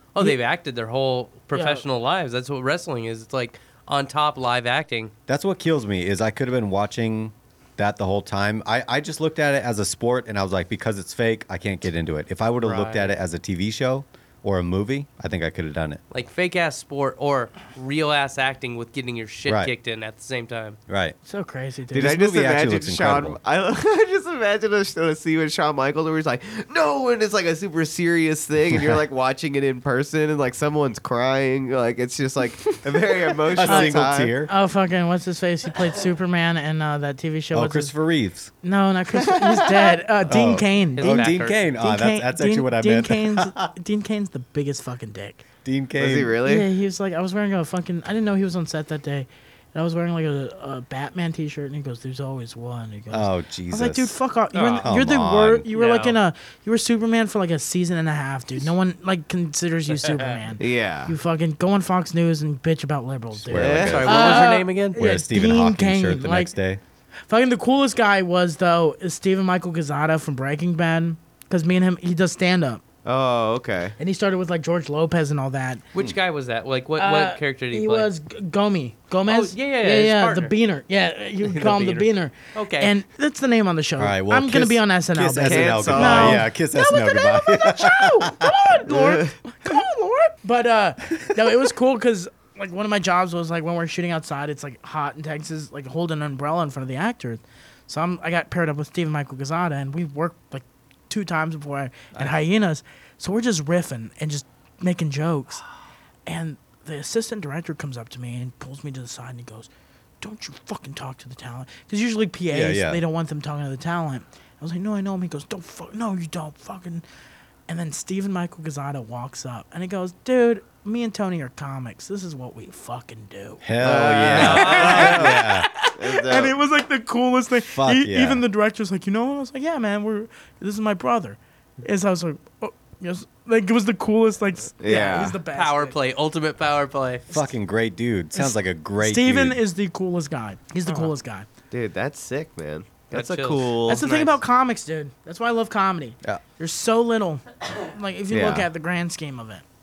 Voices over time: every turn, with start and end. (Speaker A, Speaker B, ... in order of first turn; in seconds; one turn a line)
Speaker A: 0.1-5.1
Speaker B: 1.5-1.8
Speaker C: 5.3-16.0
Speaker A: 12.6-13.1
Speaker A: 16.1-20.8
Speaker C: 19.5-19.7
Speaker C: 20.9-21.1
Speaker B: 21.2-22.1
Speaker D: 21.9-34.3
Speaker C: 21.9-23.4
Speaker C: 33.5-34.5
Speaker B: 33.6-37.9
Speaker C: 37.5-38.5
Speaker B: 38.6-45.4
Speaker D: 39.1-40.0
Speaker C: 40.3-43.7
Speaker A: 41.0-41.6
Speaker C: 45.6-46.4
Speaker D: 46.0-46.7
Speaker B: 46.4-66.5
Speaker C: 53.1-54.1
Speaker A: 54.5-54.9
Speaker C: 54.8-55.6
Speaker A: 55.7-56.2
Speaker D: 60.6-61.1
Speaker C: 63.3-66.8
Speaker D: 63.5-64.5
Speaker A: 63.6-65.0
Speaker B: 67.3-72.8
Speaker D: 73.0-74.0
Speaker B: 74.0-75.8
Speaker A: 75.9-78.1
Speaker B: 77.0-105.6
Speaker A: 79.3-80.5
Speaker A: 81.4-82.9
Speaker C: 84.0-88.7
Speaker D: 85.4-86.4
Speaker D: 88.9-89.3
Speaker B: 106.2-109.7
Speaker B: 110.2-117.0
Speaker C: 112.5-113.0
Speaker B: 117.7-123.6
Speaker C: 123.6-125.7
Speaker D: 123.8-126.5
Speaker B: 124.3-135.9
Speaker A: 124.3-125.1
Speaker C: 127.6-128.4
Speaker D: 134.8-135.4
Speaker A: 135.5-137.3
Speaker C: 137.3-139.6
Speaker B: 138.3-141.4
Speaker D: 141.7-144.0
Speaker A: 143.1-144.4
Speaker B: 143.9-149.6
Speaker D: 148.3-148.7